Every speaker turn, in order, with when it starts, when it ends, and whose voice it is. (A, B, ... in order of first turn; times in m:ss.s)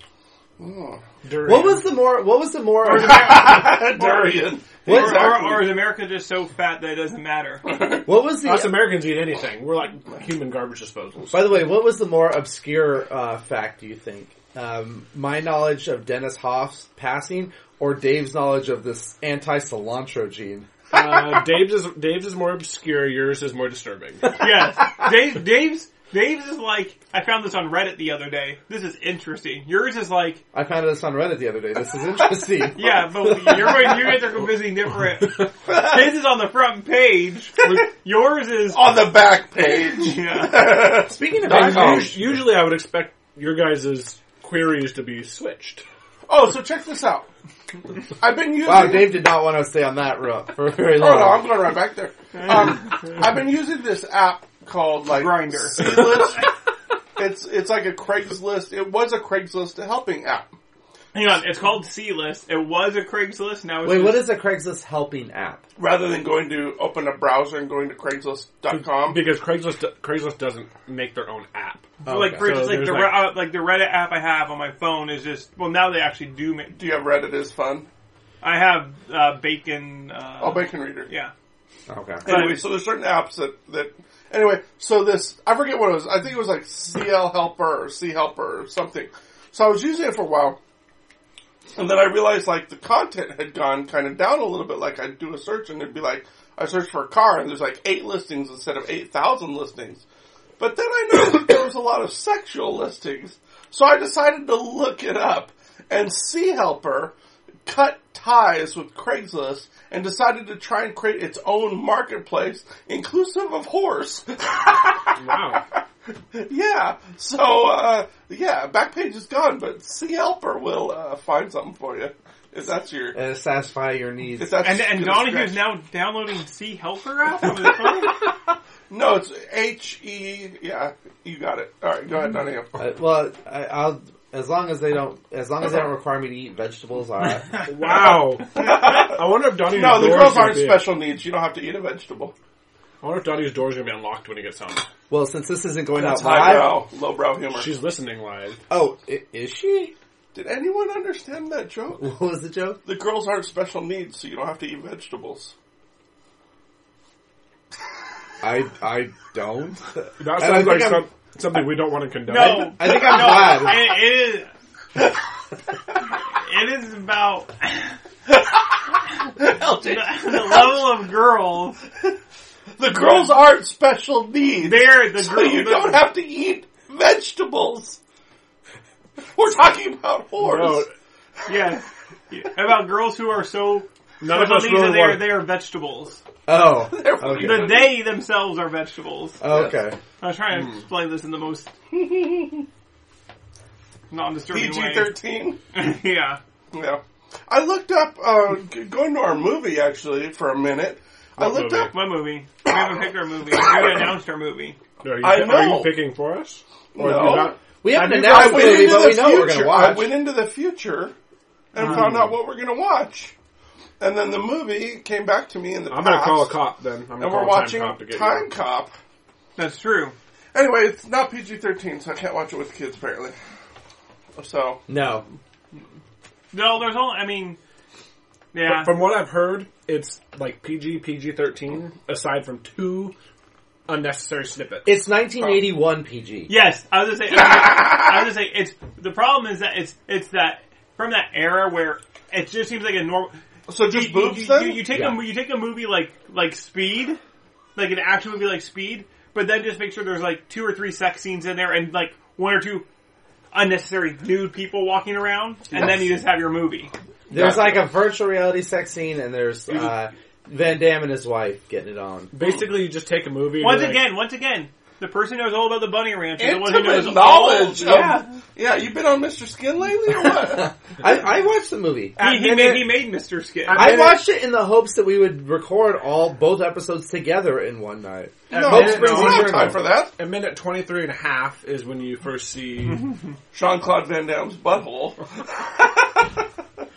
0:00.6-0:01.0 A
0:01.2-0:01.9 B
0:01.4-0:03.7 C
0:02.8-0:05.8 A
0:04.0-0:07.6 D
0:04.9-0:05.3 C
0:07.6-0:08.0 A
0:08.0-0:08.8 C
0:08.4-0:11.5 B
0:11.3-0:20.7 C
0:20.9-0:24.4 B
0:24.4-0:30.4 D
0:30.5-0:33.9 C
0:32.8-0:39.1 D
0:38.7-0:42.2 A
0:39.9-0:40.9 D
0:41.1-0:42.2 C
0:41.5-0:45.8 B
0:46.3-0:47.3 A
0:48.2-0:49.2 A
0:48.6-0:51.5 C
0:51.0-0:56.5 A
0:55.1-0:56.3 D
0:57.2-1:00.5 A
1:01.1-1:04.3 D
1:03.8-1:05.6 C
1:05.8-1:09.3 A
1:08.7-1:13.3 B
1:12.0-1:16.8 D
1:12.0-1:12.6 C
1:16.7-1:17.9 A
1:18.4-1:21.3 D
1:20.4-1:21.1 A
1:21.9-1:22.3 C
1:22.2-1:30.6 A
1:22.3-1:22.6 D
1:31.7-1:40.0 A
1:40.6-1:47.1 A
1:47.7-1:55.8 A
1:55.2-1:55.6 B
1:56.3-2:03.2 A
2:03.1-2:04.6 C
2:04.4-2:05.7 A
2:04.6-2:08.2 D
2:07.9-2:08.3 A
2:08.9-2:12.8 A
2:12.8-2:17.6 C
2:17.6-2:20.9 B
2:18.5-2:22.3 A
2:23.0-2:24.9 B
2:25.1-2:26.8 C
2:25.9-2:27.7 A
2:27.5-2:28.6 B
2:28.7-2:29.9 C
2:30.3-2:32.1 A
2:32.0-2:32.8 C
2:32.8-2:35.5 A
2:38.4-2:41.1 C
2:40.2-2:42.8 B
2:42.3-2:44.5 D
2:42.3-2:44.0 C
2:46.1-2:48.0 D
2:48.3-2:50.9 A
2:49.8-2:51.8 D
2:52.8-2:58.0 A
2:53.0-2:53.3 D
2:54.6-2:56.1 D
2:59.3-3:00.9 A
3:00.4-3:00.9 B
3:01.5-3:06.2 D
3:04.2-3:05.4 B
3:06.5-3:07.8 C
3:06.8-3:08.0 A
3:07.4-3:09.4 D
3:09.4-3:10.0 C
3:10.2-3:11.7 D
3:10.6-3:10.8 B
3:11.9-3:12.7 A
3:14.1-3:15.2 D
3:14.5-3:15.6 A
3:15.7-3:16.4 D
3:16.7-3:21.9 A
3:21.4-3:21.9 B
3:21.9-3:24.8 D
3:22.7-3:24.0 A
3:25.0-3:28.9 B
3:25.2-3:26.0 A
3:27.0-3:27.6 A
3:27.8-3:30.2 C
3:28.1-3:31.1 A
3:31.7-3:33.3 A
3:31.8-3:32.1 D
3:31.8-3:32.4 B
3:34.0-3:36.6 A
3:35.9-3:38.5 B
3:37.2-3:38.9 A
3:39.6-3:40.2 D
3:40.5-3:43.4 A
3:44.4-3:44.8 A
3:44.9-3:45.3 C
3:46.5-3:47.6 D
3:48.5-3:49.0 D
3:48.6-3:53.2 B
3:53.9-3:55.0 B
3:54.8-3:56.5 C
3:56.5-4:07.2 D
3:57.7-3:58.0 A
4:03.7-4:04.9 A
4:04.9-4:05.2 C
4:07.8-4:12.9 D
4:13.5-4:16.9 D
4:17.3-4:22.3 C
4:17.3-4:17.7 A
4:22.3-4:24.1 B
4:23.6-4:28.3 D
4:26.4-4:30.8 A
4:30.4-4:32.2 C
4:32.2-4:32.9 B
4:32.2-4:34.0 D
4:33.7-4:34.1 B
4:33.7-4:39.8 C
4:38.5-4:43.1 B
4:38.5-4:40.1 A
4:43.5-4:46.4 A